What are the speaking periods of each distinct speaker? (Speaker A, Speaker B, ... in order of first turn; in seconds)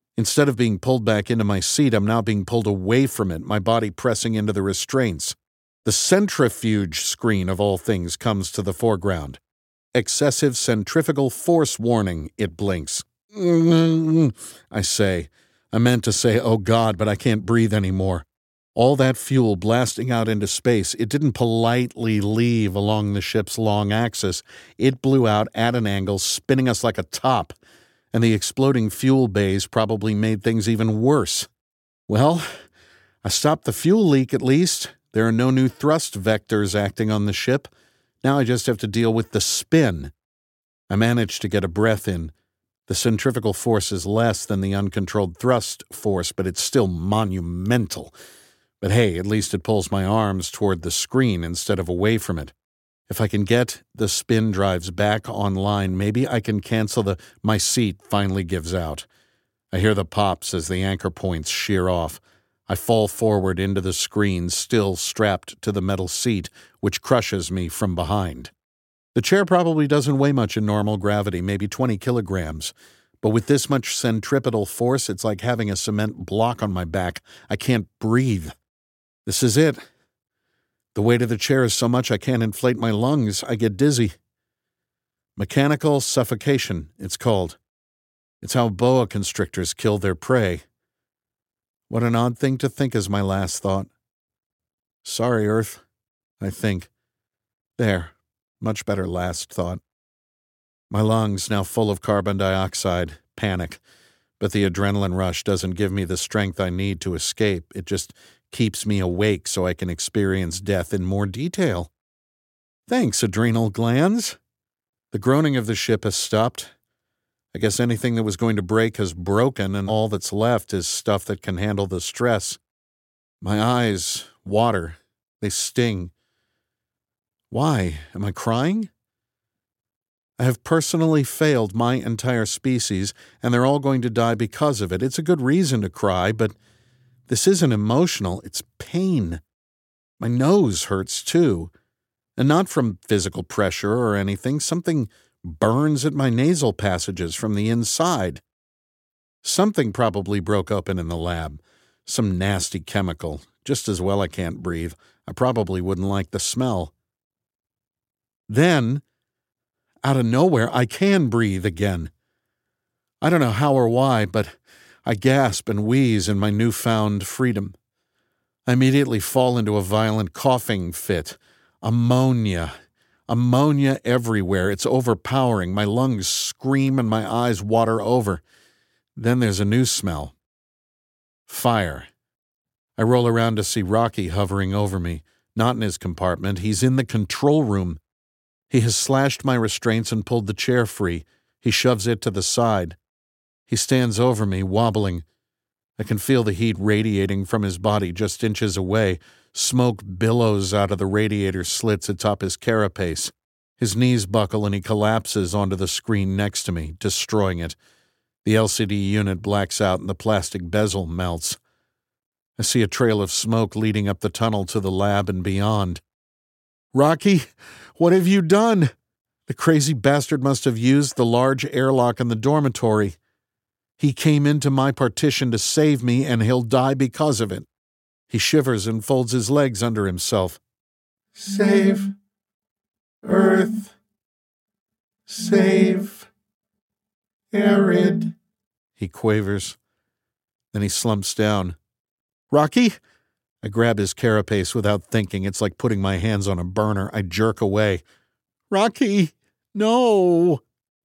Speaker A: 0.1-9.4, 9.9-27.6, 28.1-31.5, 32.1-32.5, 33.2-37.7, 38.2-40.1, 40.9-42.3, 42.9-48.1, 48.8-52.5, 53.1-59.1, 59.7-68.5, 69.1-78.5, 79.2-79.8, 80.9-84.2, 85.3-87.6, 88.4-90.6, 91.9-93.9, 95.0-95.8, 96.4-96.9, 97.8-99.8, 100.9-103.8, 104.4-111.9, 112.9-114.4, 115.1-116.7, 117.5-122.6, 123.4-126.1, 127.5-128.9, 130.4-136.5, 137.3-139.4, 140.2-141.7, 142.4-148.4, 149.4-156.9, 158.5-159.0, 160.0-162.1, 163.2-167.8, 168.7-172.7, 173.3-178.4, 179.1-180.3, 181.5-182.1, 183.0-188.0, 188.7-193.0, 193.7-195.2, 196.0-207.8, 208.4-211.6, 212.6-216.0, 216.9-218.9, 219.5-223.2, 224.0-227.7, 228.3-230.6, 231.3-232.1, 233.2-233.9, 235.3-236.3, 237.5-238.3, 239.0-239.8, 240.7-241.8, 242.5-243.0, 243.6-248.0, 248.7-250.6